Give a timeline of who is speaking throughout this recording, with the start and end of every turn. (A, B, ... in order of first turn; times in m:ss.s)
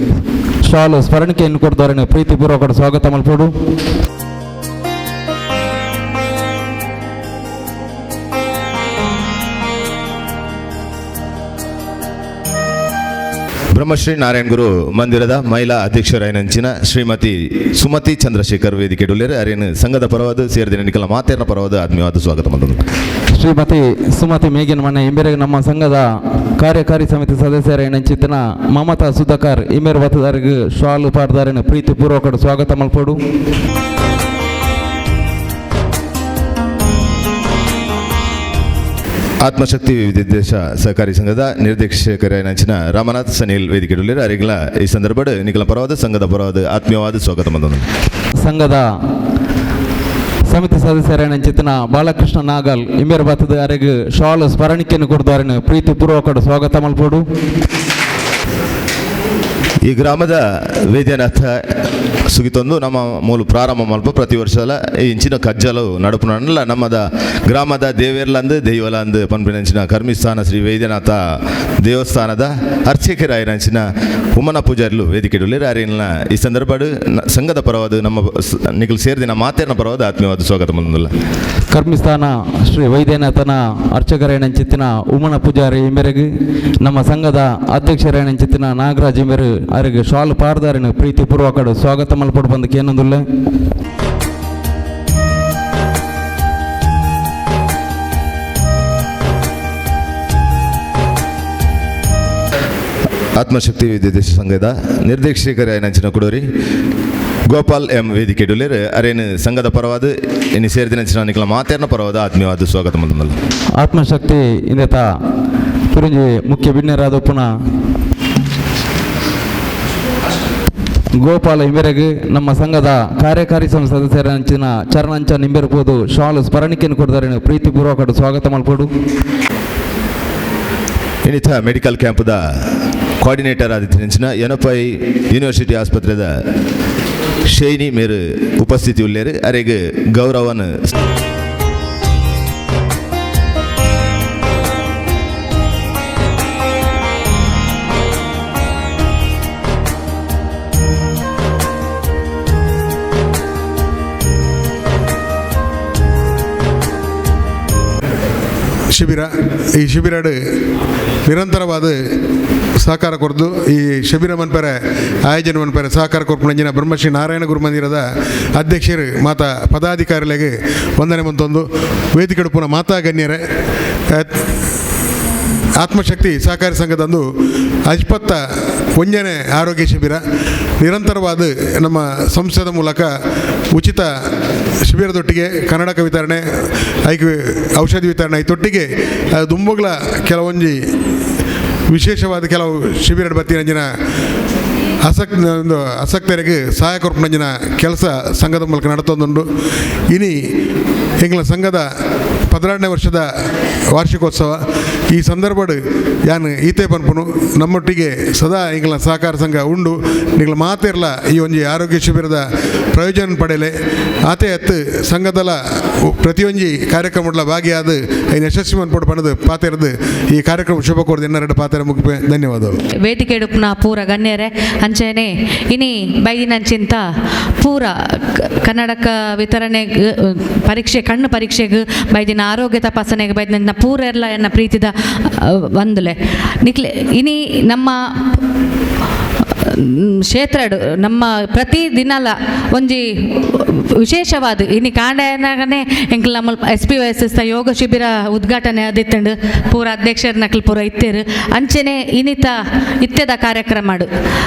0:00.6-0:03.5 A
0:13.7-0:22.8 B
0:23.4-0:33.2 A
0:39.4-0:47.9 B
0:48.4-0:48.9 A
0:50.5-0:57.2 A
0:59.8-1:01.6 B
1:02.3-1:21.1 B
1:21.7-1:33.2 A
1:43.4-1:46.5 B
1:47.5-1:53.4 B
1:53.8-1:55.1 A
1:55.9-1:57.5 A
2:01.2-2:08.9 A
2:11.2-2:12.6 B
2:13.2-2:16.4 B
2:17.5-2:20.9 B
2:38.9-2:40.4 C
2:41.2-2:42.0 C
2:42.8-2:53.4 C
2:55.8-2:57.3 C
2:57.9-2:58.4 C
2:59.0-3:00.2 C
3:00.8-3:03.1 C
3:03.7-3:04.1 C
3:04.9-3:06.4 C
3:07.0-3:10.8 C
3:11.9-3:13.9 C
3:15.0-3:19.5 C
3:20.1-3:20.4 C
3:21.2-3:21.9 C
3:22.5-3:23.3 C
3:23.9-3:33.7 C
3:34.2-3:42.8 C
3:43.0-3:47.1 D
3:47.6-3:58.4 D
3:59.5-4:14.1 D